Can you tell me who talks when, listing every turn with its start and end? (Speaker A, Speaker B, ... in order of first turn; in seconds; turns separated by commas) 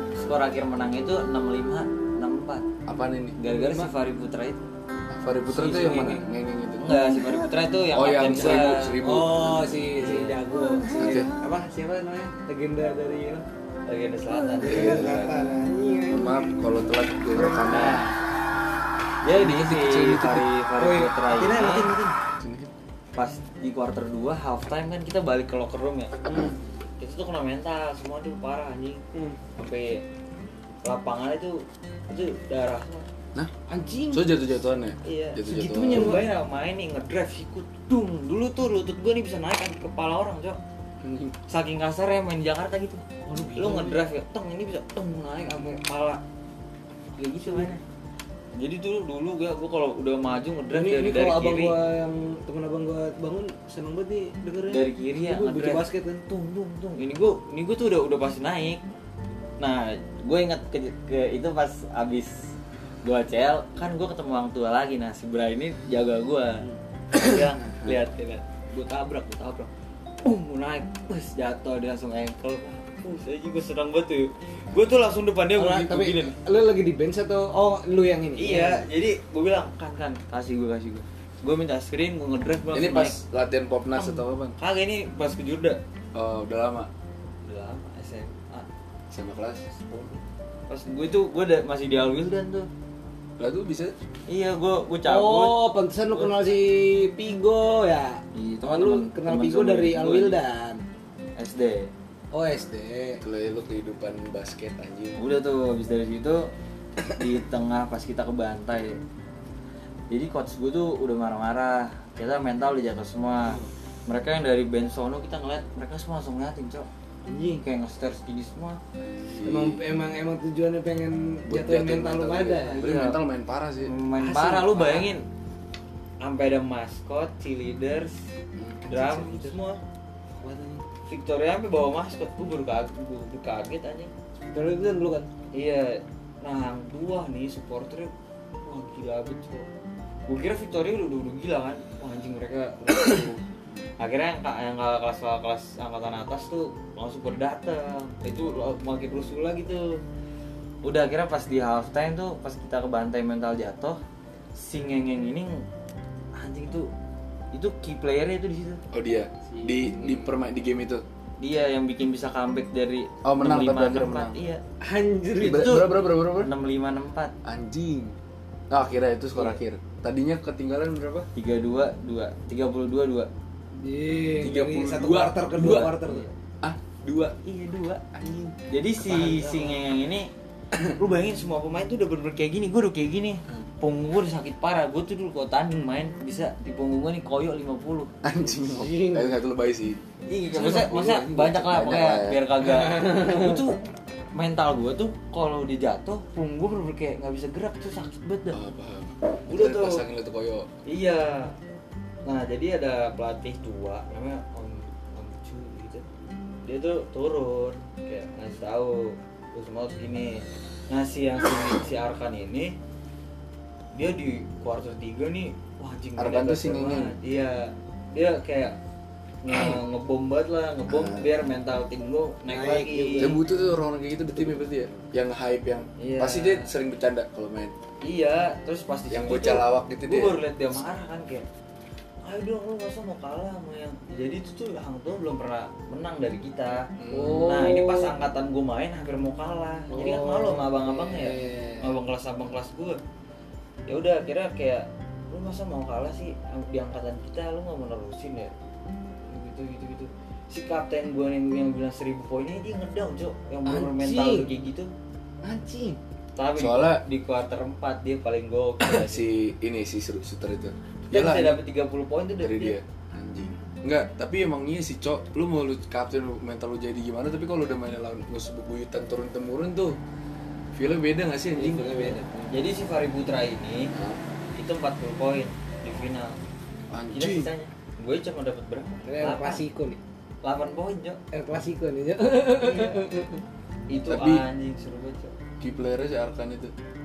Speaker A: 0.2-2.7, Speaker B: 2.9-3.4, Speaker A: 3.4-4.7, Speaker C: 3.5-3.9, Speaker B: 5.1-7.0, Speaker A: 5.5-6.2, Speaker C: 5.8-6.2, Speaker A: 6.8-9.0, Speaker C: 7.0-7.5, Speaker B: 7.9-9.7, Speaker C: 8.3-13.4, Speaker A: 9.8-10.8, Speaker B: 10.9-11.3, Speaker A: 13.8-15.1, Speaker C: 14.3-16.6, Speaker B: 14.6-15.4, Speaker B: 16.1-18.0, Speaker C: 17.3-18.1, Speaker A: 17.7-18.1, Speaker A: 19.2-21.9, Speaker B: 19.3-20.5, Speaker C: 20.8-22.2, Speaker B: 22.4-22.7, Speaker A: 23.1-29.0, Speaker B: 26.3-26.6, Speaker A: 29.6-30.0, Speaker A: 30.8-33.1, Speaker C: 33.7-34.3, Speaker B: 34.1-36.2, Speaker A: 35.0-40.6, Speaker C: 35.5-36.3, Speaker B: 41.0-41.4, Speaker A: 41.5-46.2, Speaker C: 43.2-44.0, Speaker A: 47.2-47.8, Speaker C: 47.2-47.8, Speaker A: 48.5-51.7, Speaker C: 50.7-56.2, Speaker A: 54.7-58.8, Speaker A: 59.6-62.4, Speaker A: 63.0-69.7, Speaker B: 67.1-67.9, Speaker A: 70.2-76.3, Speaker C: 75.5-78.9, Speaker A: 78.4-83.2, Speaker B: 82.7-84.5, Speaker A: 83.9-85.8, Speaker B: 86.1-86.9, Speaker A: 87.5-88.7, Speaker B: 89.1-89.7, Speaker A: 89.8-92.7, Speaker B: 93.4-93.9, Speaker A: 94.3-96.4, Speaker C: 95.0-100.8, Speaker A: 98.3-100.4, Speaker A: 101.4-101.9, Speaker C: 102.3-103.2, Speaker B: 103.2-105.2, Speaker A: 105.2-106.5, Speaker A: 107.2-109.0, Speaker A: 110.1-116.9, Speaker C: 117.2-117.6, Speaker A: 117.5-118.8, Speaker B: 119.0-119.8, Speaker C: 119.4-122.8, Speaker B: 121.5-123.9, Speaker A: 122.7-123.2, Speaker A: 123.8-125.2, Speaker C: 124.2-125.1, Speaker A: 126.2-128.2, Speaker B: 128.6-128.9, Speaker A: 128.9-129.8, Speaker C: 128.9-129.6, Speaker C: 130.4-130.8, Speaker A: 131.1-134.1, Speaker C: 134.4-135.3, Speaker A: 135.5-138.1, Speaker A: 138.6-139.7, Speaker A: 140.3-143.4, Speaker A: 144.0-150.0, Speaker A: 150.8-154.0, Speaker A: 154.6-155.6, Speaker A: 156.3-156.9, Speaker A: 157.5-158.8, Speaker B: 158.9-161.0, Speaker C: 159.5-160.3, Speaker A: 161.4-164.6, Speaker B: 163.2-164.4, Speaker C: 164.8-165.8, Speaker B: 165.4-166.5, Speaker A: 165.4-167.3, Speaker B: 167.4-168.2, Speaker B: 168.7-171.3, Speaker A: 171.3-173.3, Speaker C: 173.8-176.2, Speaker B: 174.4-175.9, Speaker A: 175.6-176.3, Speaker B: 176.6-177.4, Speaker A: 177.4-178.0, Speaker B: 178.1-178.5, Speaker A: 178.6-180.3, Speaker C: 179.0-179.8, Speaker A: 180.8-188.1, Speaker B: 188.2-190.0, Speaker C: 188.6-189.3, Speaker A: 190.3-193.8, Speaker B: 190.5-192.4, Speaker C: 192.8-193.6, Speaker A: 194.3-198.6, Speaker B: 198.5-200.7, Speaker A: 199.5-200.0, Speaker A: 200.8-201.5, Speaker A: 202.2-206.0, Speaker A: 206.6-212.8, Speaker A: 213.9-218.8, Speaker B: 216.2-217.1, Speaker A: 219.4-223.3, Speaker B: 220.9-221.3, Speaker C: 222.5-223.4, Speaker B: 223.2-227.7, Speaker C: 224.6-225.1, Speaker A: 226.0-226.7, Speaker A: 228.0-231.4, Speaker B: 229.1-230.4, Speaker A: 232.2-243.0, Speaker B: 237.0-237.5, Speaker C: 237.1-238.1, Speaker C: 239.9-241.9, Speaker A: 243.9-248.5, Speaker A: 249.2-254.9, Speaker C: 253.7-254.5, Speaker C: 255.4-256.0, Speaker A: 256.4-259.2, Speaker B: 256.6-257.0, Speaker B: 258.8-261.6, Speaker A: 261.1-262.8, Speaker B: 262.4-270.0, Speaker B: 270.7-272.2, Speaker C: 271.6-272.5, Speaker A: 272.5-273.9, Speaker B: 273.9-274.2, Speaker A: 274.6-276.4, Speaker B: 276.9-277.5, Speaker A: 277.1-279.6, Speaker C: 279.0-280.0, Speaker A: 280.4-281.2, Speaker C: 281.3-283.4, Speaker A: 282.5-283.1, Speaker A: 283.9-285.3, Speaker B: 284.0-284.4, Speaker B: 285.6-286.7